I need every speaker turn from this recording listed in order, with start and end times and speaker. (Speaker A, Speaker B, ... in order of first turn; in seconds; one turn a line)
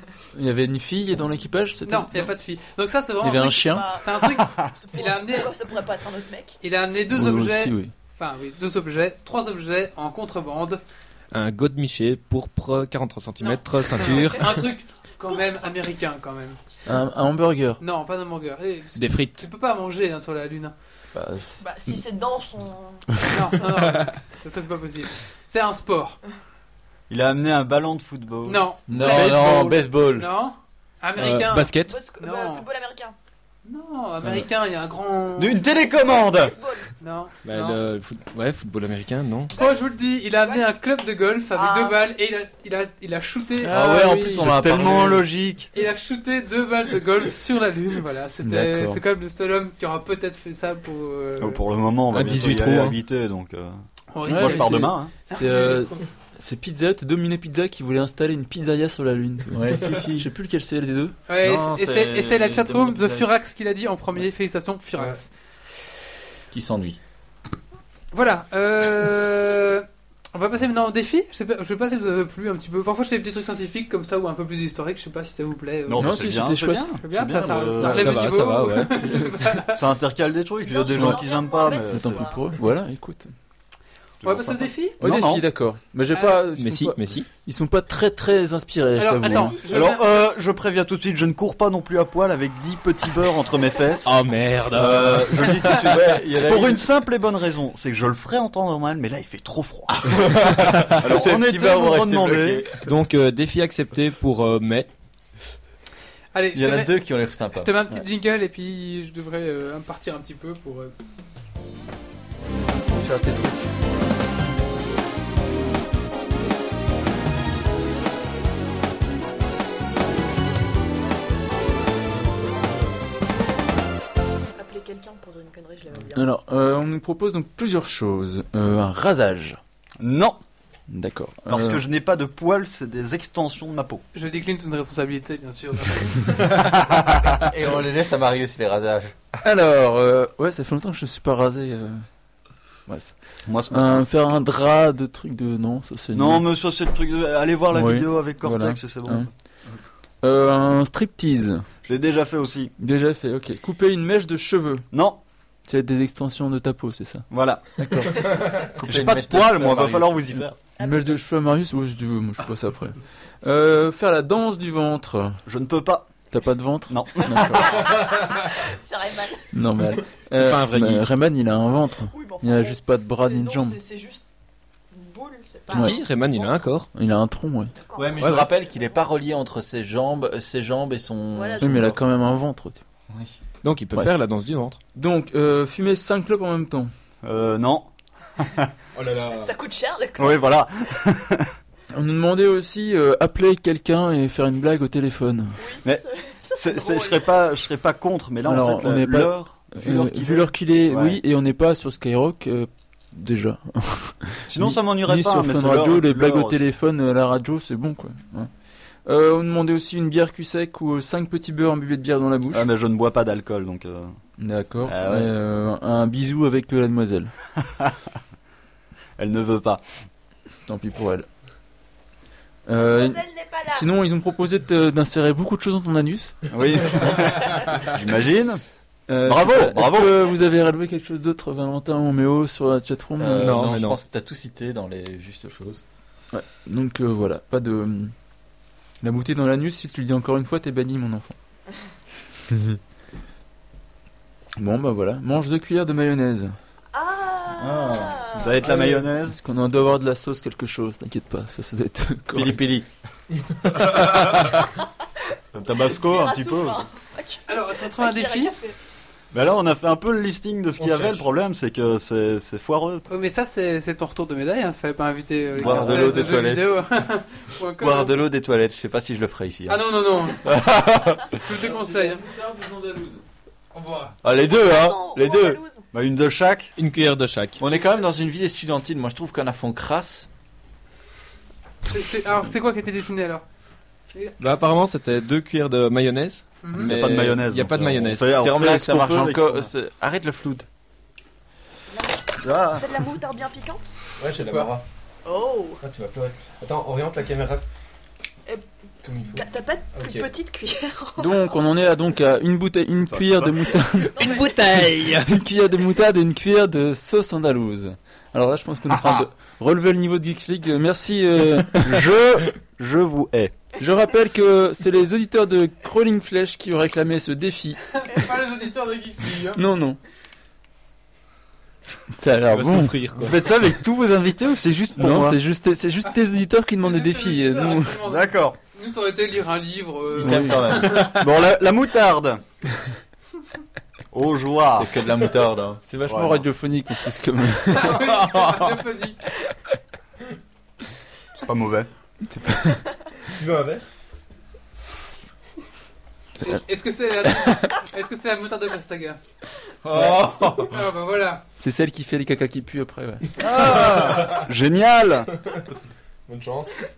Speaker A: 0.3-2.3
Speaker B: 1.9-5.5
Speaker A: 3.2-3.9
Speaker C: 3.5-6.6
Speaker B: 6.6-10.8
Speaker A: 7.1-7.9
Speaker D: 11.3-14.7
Speaker C: 13.4-14.4
Speaker B: 14.0-16.6
Speaker A: 16.9-17.8
Speaker B: 17.8-20.7
Speaker D: 18.9-19.5
Speaker A: 21.1-22.0
Speaker C: 21.6-23.2
Speaker B: 23.3-26.2
Speaker E: 27.1-29.9
Speaker B: 28.4-29.5
Speaker F: 28.9-30.3
Speaker B: 30.1-32.7
Speaker D: 31.2-32.0
Speaker C: 31.8-33.1
Speaker B: 33.7-35.6
Speaker E: 35.4-36.6
Speaker C: 35.6-36.9
Speaker B: 37.0-37.8
Speaker D: 37.4-39.5
Speaker C: 39.5-40.6
Speaker B: 39.6-44.0
Speaker C: 41.5-42.1
Speaker A: 43.6-44.5
Speaker F: 43.7-45.3
Speaker E: 44.4-45.7
Speaker B: 45.7-51.6
Speaker A: 48.4-49.0
Speaker E: 51.4-53.8
Speaker D: 52.1-53.0
Speaker B: 54.1-56.0
Speaker A: 54.2-61.2
Speaker E: 54.3-55.1
Speaker F: 59.5-60.3
Speaker B: 61.3-65.3
Speaker F: 61.4-63.3
Speaker F: 66.5-67.0
Speaker B: 68.1-76.2
Speaker E: 75.9-78.2
Speaker A: 76.0-77.0
Speaker B: 77.0-79.8
Speaker D: 77.8-79.4
Speaker E: 79.8-82.3
Speaker C: 80.6-82.5
Speaker A: 81.8-83.3
Speaker E: 84.2-85.4
Speaker B: 84.2-85.0
Speaker A: 85.0-89.6
Speaker D: 86.6-87.3
Speaker B: 89.0-90.0
Speaker C: 89.3-90.1
Speaker E: 89.7-94.1
Speaker D: 94.0-95.7
Speaker E: 94.7-102.7
Speaker F: 95.8-96.9
Speaker F: 100.1-102.8
Speaker D: 102.8-104.9
Speaker B: 106.3-107.0
Speaker F: 106.5-107.7
Speaker B: 107.6-110.9
Speaker A: 113.0-113.5
Speaker C: 124.6-126.3
Speaker A: 126.1-129.6
Speaker E: 130.0-130.4
Speaker A: 130.9-131.8
Speaker E: 131.5-134.0
Speaker B: 134.2-136.3
Speaker E: 136.7-137.1
Speaker F: 137.4-139.2
Speaker A: 139.4-142.1
Speaker A: 142.9-143.2
Speaker E: 143.5-144.0
Speaker A: 143.7-146.4
Speaker E: 146.1-149.3
Speaker A: 147.7-149.3
Speaker A: 150.2-151.7
Speaker E: 151.8-152.7
Speaker A: 152.8-154.9
Speaker E: 154.9-155.2
Speaker A: 155.7-158.2
Speaker E: 157.3-158.0
Speaker F: 158.8-160.4
Speaker E: 158.8-160.6
Speaker C: 160.8-161.2
Speaker A: 160.8-165.4
Speaker E: 165.5-166.1
Speaker A: 166.3-167.9
Speaker E: 166.9-167.9
Speaker C: 167.6-169.4
Speaker A: 169.5-173.8
Speaker D: 170.3-171.1
Speaker C: 172.1-174.2
Speaker C: 174.9-176.6
Speaker D: 175.7-176.9
Speaker A: 175.7-176.0
Speaker A: 176.9-177.7
Speaker C: 177.8-179.1
Speaker F: 177.9-182.0
Speaker D: 178.2-178.5
Speaker C: 181.3-181.9
Speaker A: 181.6-182.8
Speaker F: 183.1-183.4
Speaker D: 183.6-184.8
Speaker A: 184.9-186.9
Speaker E: 187.2-188.7
Speaker D: 188.9-189.5
Speaker C: 189.4-190.4
Speaker E: 190.2-191.5
Speaker A: 191.9-195.6
Speaker C: 195.6-197.5
Speaker E: 196.6-201.2
Speaker A: 198.4-208.5
Speaker E: 204.5-206.6
Speaker A: 209.1-212.7
Speaker E: 212.5-214.1
Speaker A: 214.4-217.3
Speaker E: 214.8-215.3
Speaker E: 219.2-219.8
Speaker A: 220.7-221.3
Speaker A: 222.7-226.4
Speaker C: 222.8-223.9
Speaker E: 226.5-228.6
Speaker A: 229.1-233.6
Speaker E: 229.2-230.3
Speaker F: 233.2-235.8
Speaker D: 233.4-234.0
Speaker A: 236.3-238.1
Speaker A: 239.0-241.3
Speaker A: 244.6-246.6
Speaker C: 246.9-248.5
Speaker F: 247.6-248.2
Speaker E: 248.3-249.4
Speaker D: 248.6-249.1
Speaker A: 249.3-252.6
Speaker F: 252.3-252.9
Speaker E: 255.5-256.8
Speaker C: 255.8-258.8
Speaker B: 257.5-258.6
Speaker E: 259.3-263.0
Speaker D: 260.8-261.2
Speaker B: 263.1-268.2
Speaker E: 265.6-266.3
Speaker F: 265.6-266.8
Speaker F: 267.8-271.4
Speaker B: 269.7-270.5
Speaker B: 271.4-272.2
Speaker A: 271.5-273.2
Speaker B: 273.7-274.2
Speaker F: 274.2-275.6
Speaker C: 274.3-275.9
Speaker E: 275.9-276.7
Speaker D: 276.8-277.6
Speaker F: 277.6-280.3
Speaker B: 281.9-283.4
Speaker D: 284.4-288.4
Speaker B: 286.6-286.9
Speaker E: 286.7-289.7
Speaker F: 288.3-290.7
Speaker C: 291.9-293.9
Speaker E: 292.4-292.9
Speaker D: 294.2-294.8
Speaker F: 294.3-294.8
Speaker C: 295.2-295.8
Speaker D: 295.8-297.6
Speaker D: 299.0-300.3
Speaker C: 299.3-301.4
Speaker A: 301.2-304.3
Speaker E: 303.1-303.7
Speaker D: 304.0-305.4
Speaker C: 304.2-304.5
Speaker A: 305.3-312.0
Speaker E: 308.9-309.3
Speaker E: 311.8-313.6
Speaker A: 313.8-317.8
Speaker B: 318.0-319.6
Speaker A: 319.6-320.0
Speaker A: 322.2-323.0
Speaker D: 322.5-323.4
Speaker E: 323.2-325.4
Speaker A: 325.0-328.0
Speaker B: 326.8-331.1
Speaker E: 328.1-328.6
Speaker F: 330.1-331.1
Speaker A: 330.2-331.0
Speaker E: 331.1-332.4
Speaker E: 334.1-334.9
Speaker F: 334.7-335.8
Speaker A: 335.9-338.0
Speaker E: 336.1-336.4
Speaker B: 337.7-339.3
Speaker D: 337.9-338.6
Speaker E: 341.4-341.9
Speaker A: 342.3-342.8
Speaker D: 343.3-343.9
Speaker B: 346.4-349.2
Speaker F: 349.9-350.7
Speaker D: 349.9-350.7
Speaker B: 350.7-351.4
Speaker A: 351.6-353.3
Speaker E: 353.4-355.3
Speaker B: 353.5-354.2
Speaker D: 353.7-354.5
Speaker D: 356.3-356.7